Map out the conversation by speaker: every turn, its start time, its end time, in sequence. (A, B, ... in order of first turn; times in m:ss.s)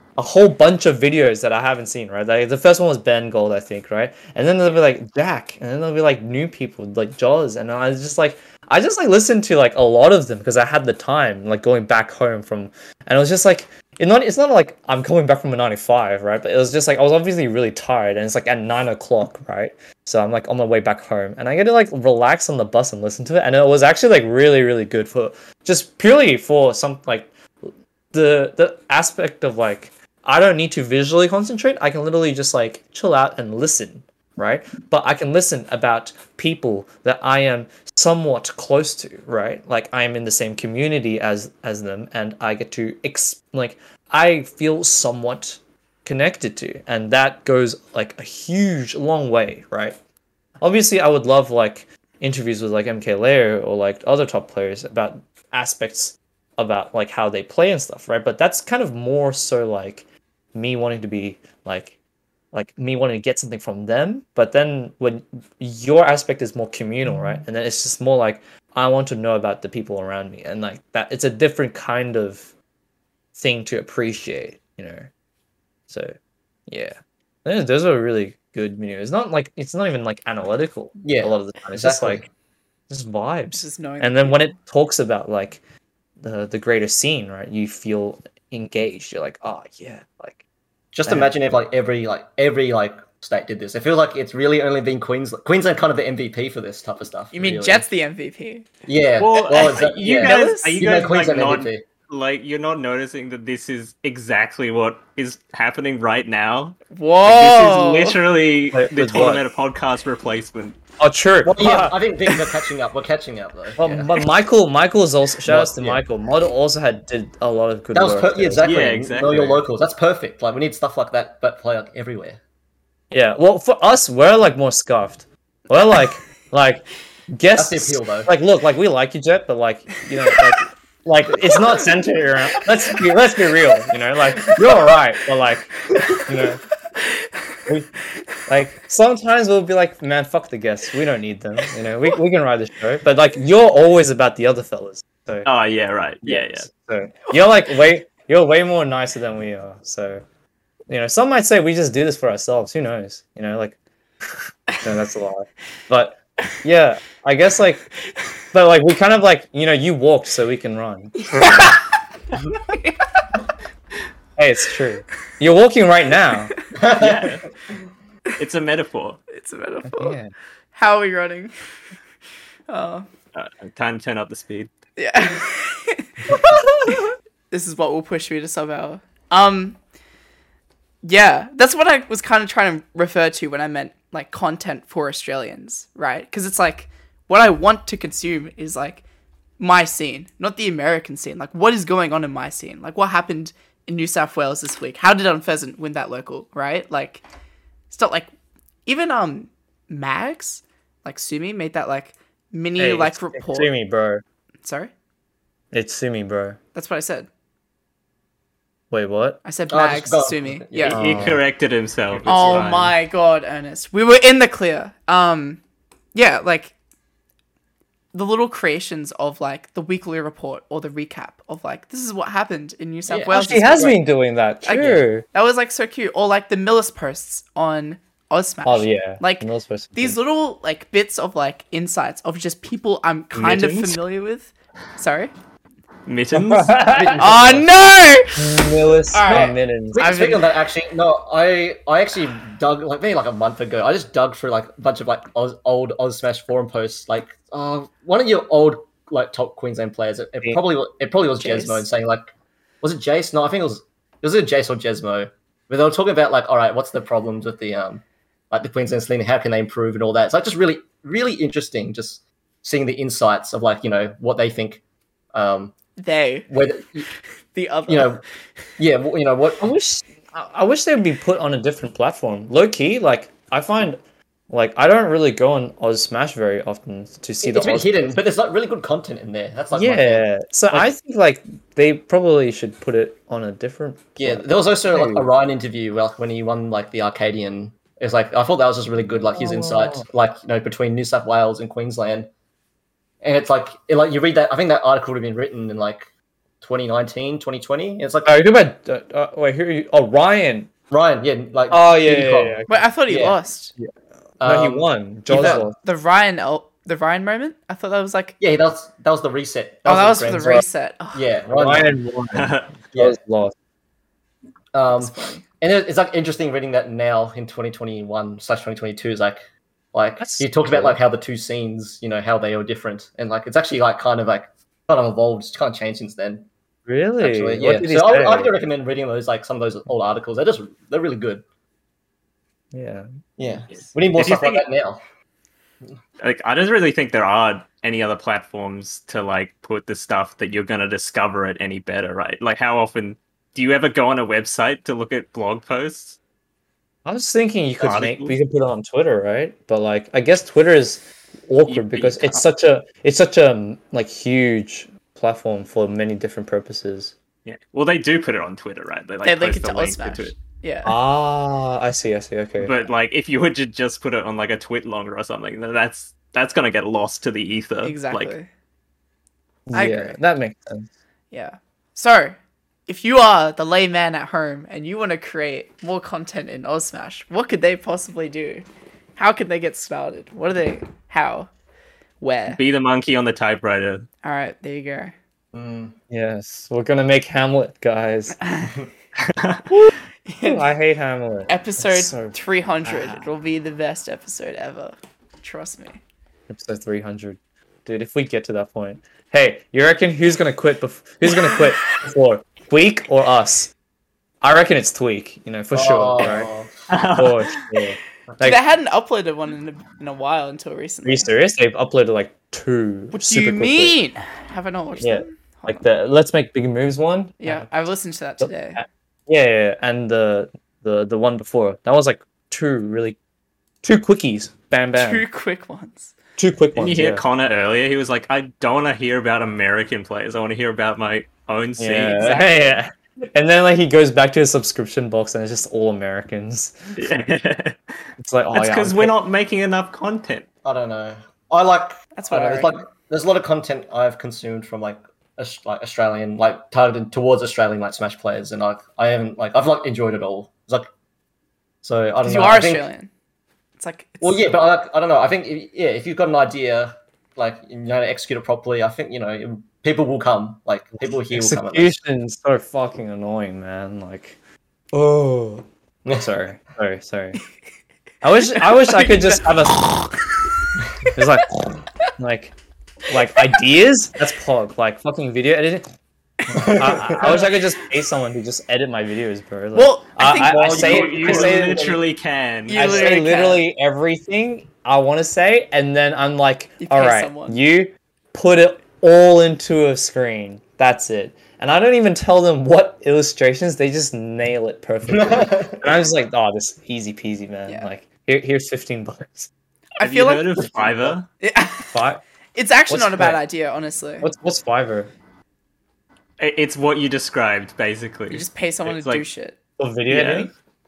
0:00.2-0:50.0 A
0:50.6-1:01.9 A
1:02.5-1:12.5 A
1:13.3-1:15.1 A
1:15.9-1:16.1 A
1:16.7-1:22.2 A
1:21.0-1:22.3 B
1:22.9-1:25.6 A
1:23.5-1:24.5 C
1:26.2-1:30.4 A
1:30.9-1:37.8 B
1:37.3-1:38.7 C
1:38.9-1:41.8 B
1:39.2-1:50.8 D
1:40.2-1:40.9 C
1:46.9-1:48.2 C
1:48.7-1:49.4 A
1:51.0-1:51.9 A
1:51.4-1:54.1 B
1:53.8-1:58.7 A
1:55.4-1:56.0 B
1:57.9-2:02.4 B
1:58.6-1:59.6 D
2:03.1-2:16.6 A
2:07.5-2:08.3 B
2:17.0-2:17.3 C
2:18.4-2:25.5 A
2:25.4-2:26.7 D
2:26.2-2:30.2 A
2:30.9-2:37.9 A
2:38.5-2:41.8 A
2:41.2-2:41.8 C
2:42.7-2:43.3 C
2:44.4-2:46.5 A
2:46.7-2:47.3 B
2:47.0-2:47.4 D
2:48.4-2:49.2 D
2:49.3-2:50.2 C
2:49.8-2:50.3 A
2:50.7-2:51.5 C
2:52.7-2:53.1 C
2:53.3-2:54.7 D
2:55.0-2:59.8 C
2:56.4-2:56.9 A
3:01.0-3:09.0 C
3:09.6-3:17.2 C
3:17.9-3:18.3 C
3:18.8-3:23.7 C
3:22.8-3:24.2 A
3:24.6-3:24.9 C
3:25.7-3:26.6 A
3:26.7-3:27.3 C
3:28.9-3:29.4 A
3:29.4-3:31.0 C
3:29.7-3:31.4 B
3:30.8-3:32.9 D
3:31.0-3:31.4 A
3:32.1-3:32.8 B
3:32.2-3:35.6 C
3:36.1-3:36.7 C
3:38.1-3:44.0 C
3:43.1-3:44.0 B
3:43.3-3:45.2 A
3:44.6-3:55.3 C
3:48.6-3:50.2 A
3:53.3-3:54.0 D
3:56.0-3:56.8 D
3:56.3-3:57.4 A
3:56.9-3:57.8 B
3:57.2-4:00.4 C
3:58.4-4:00.1 A
3:59.2-4:12.3 B
4:11.4-4:11.9 C
4:12.8-4:25.7 B
4:26.0-4:26.5 C
4:26.5-4:27.1 B
4:27.5-4:28.1 C
4:27.9-4:28.2 B
4:28.8-4:29.6 B
4:29.6-4:38.2 A
4:37.4-4:40.9 B
4:39.7-4:45.3 A
4:44.2-4:52.3 B
4:49.3-4:50.1 A
4:53.2-4:56.1 B
4:56.6-4:58.3 B
4:58.2-5:00.7 A
5:00.9-5:03.4 B
5:01.7-5:03.2 A
5:02.7-5:03.7 C
5:03.8-5:05.8 A
5:04.4-5:05.7 B
5:05.8-5:08.4 C
5:08.4-5:12.0 B
5:09.8-5:11.2 C
5:11.5-5:13.5 A
5:12.3-5:12.7 D
5:14.7-5:19.4 B
5:14.9-5:15.4 C
5:19.9-5:26.5 B
5:20.2-5:21.0 A
5:26.8-5:28.5 A
5:27.2-5:31.4 B
5:32.7-5:33.0 A
5:33.4-5:35.0 B
5:33.7-5:34.6 D
5:36.2-5:46.2 D
5:47.0-5:57.1 A
5:47.8-5:48.4 D
5:51.6-5:52.4 D
5:57.4-6:00.4 D
5:59.2-6:01.0 C
6:00.8-6:02.7 A
6:02.6-6:08.3 D
6:07.8-6:08.5 C
6:09.7-6:10.9 A
6:09.7-6:10.2 C
6:11.3-6:18.6 C
6:19.2-6:21.5 C
6:22.2-6:22.6 C
6:22.5-6:24.1 D
6:24.2-6:25.1 C
6:25.5-6:26.0 B
6:26.1-6:28.4 A
6:28.4-6:28.7 C
6:29.2-6:29.6 D
6:29.7-6:33.2 A
6:30.3-6:30.6 C
6:31.5-6:36.0 C
6:36.5-6:43.7 A
6:44.4-6:46.5 A
6:45.7-6:46.7 B
6:46.9-6:47.6 D
6:47.1-6:48.6 A
6:48.4-6:51.3 C
6:51.0-6:54.0 A
6:53.1-6:55.8 C
6:55.0-6:57.7 A
6:57.4-6:58.8 C
6:58.4-7:03.2 A
7:03.8-7:05.2 A
7:04.9-7:06.1 C
7:06.4-7:07.2 A
7:06.7-7:12.2 D
7:11.8-7:17.0 A
7:12.1-7:12.6 C
7:17.0-7:18.0 D
7:18.2-7:19.1 A
7:18.5-7:20.4 D
7:20.6-7:30.9 B
7:22.1-7:22.8 C
7:31.8-7:32.9 B
7:32.2-7:33.1 C
7:33.8-7:34.5 C
7:34.2-7:41.9 B
7:41.3-7:44.4 A
7:44.9-7:47.4 A
7:48.2-7:50.1 A
7:48.4-7:50.2 C
7:51.1-7:52.5 A
7:53.1-7:55.8 A
7:56.5-7:57.4 B
7:56.5-8:02.0 A
7:56.5-7:57.6 C
7:59.7-8:00.7 C
8:00.5-8:02.1 B
8:00.7-8:03.1 D
8:02.7-8:03.6 C
8:02.7-8:19.5 A
8:06.8-8:07.6 C
8:15.2-8:15.8 B
8:20.0-8:20.7 C
8:20.0-8:21.3 D
8:20.6-8:21.2 A
8:21.4-8:21.9 C
8:21.9-8:22.2 A
8:22.5-8:24.3 C
8:22.9-8:23.4 A
8:24.2-8:25.1 A
8:26.4-8:29.2 D
8:28.3-8:29.6 C
8:29.8-8:30.5 A
8:30.1-8:30.5 D